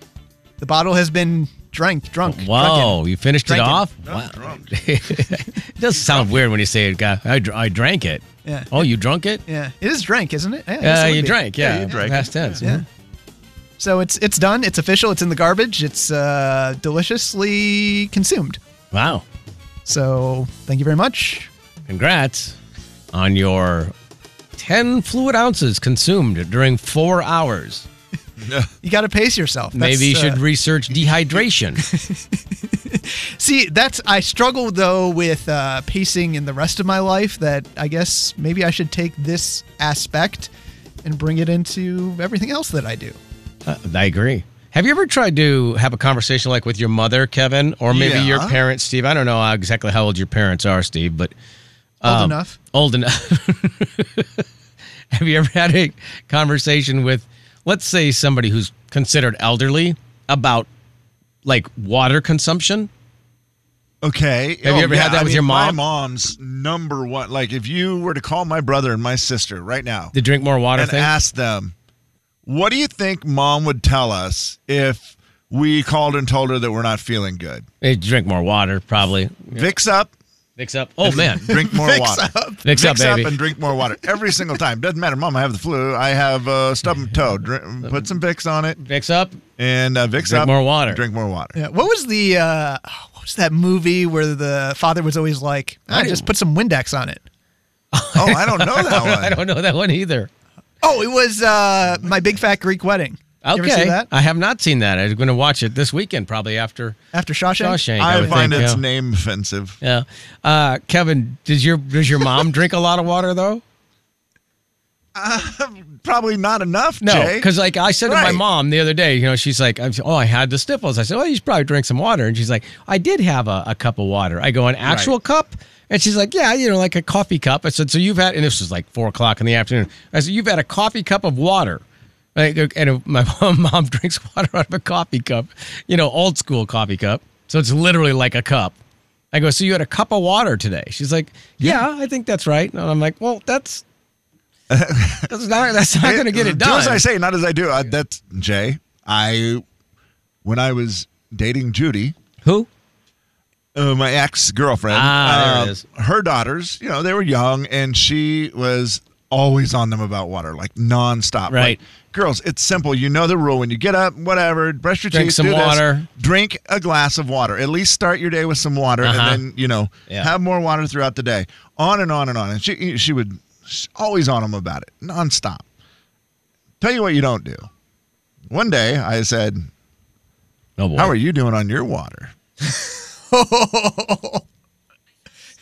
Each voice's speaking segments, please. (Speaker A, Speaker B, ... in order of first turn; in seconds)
Speaker A: 0.6-3.9, 8.4-8.9, 9.5-11.4, 13.8-18.6, 19.9-21.5, 28.8-30.4, 31.8-40.5, 41.0-43.2, 52.0-52.6, 81.5-82.6, 91.6-97.2, 100.8-104.1, 107.1-108.7, 182.7-184.4
Speaker B: 2.3-9.4, 10.8-12.8, 18.9-19.2, 21.9-22.6, 23.1-23.9, 24.6-27.9, 29.7-31.9, 43.7-51.3, 52.0-54.4, 55.1-60.7, 61.5-62.9, 64.6-65.8, 70.1-71.1, 77.8-79.7, 80.6-81.7, 82.6-83.4, 88.8-89.4, 90.2-91.0, 95.9-96.3, 97.9-100.3, 103.4-107.0, 107.6-108.8, 109.8-113.6, 117.0-131.8, 132.3-138.8, 139.3-143.8, 145.3-147.0, 154.9-155.8, 161.5-161.8, 165.1-166.1, 169.0-169.4, 180.8-181.2
Speaker C: 4.0-4.8, 6.0-6.4, 11.6-12.7, 28.4-28.7, 47.9-48.6, 64.0-70.2, 70.7-71.8, 72.5-77.7, 79.5-80.1, 81.0-88.8, 89.6-91.6, 98.2-99.4, 108.0-109.8, 115.2-117.5, 118.1-118.4, 124.8-125.1, 144.7-145.3, 146.0-149.7, 150.4-152.2, 153.8-175.7, 176.8-177.7, 178.5-179.7, 181.0-182.3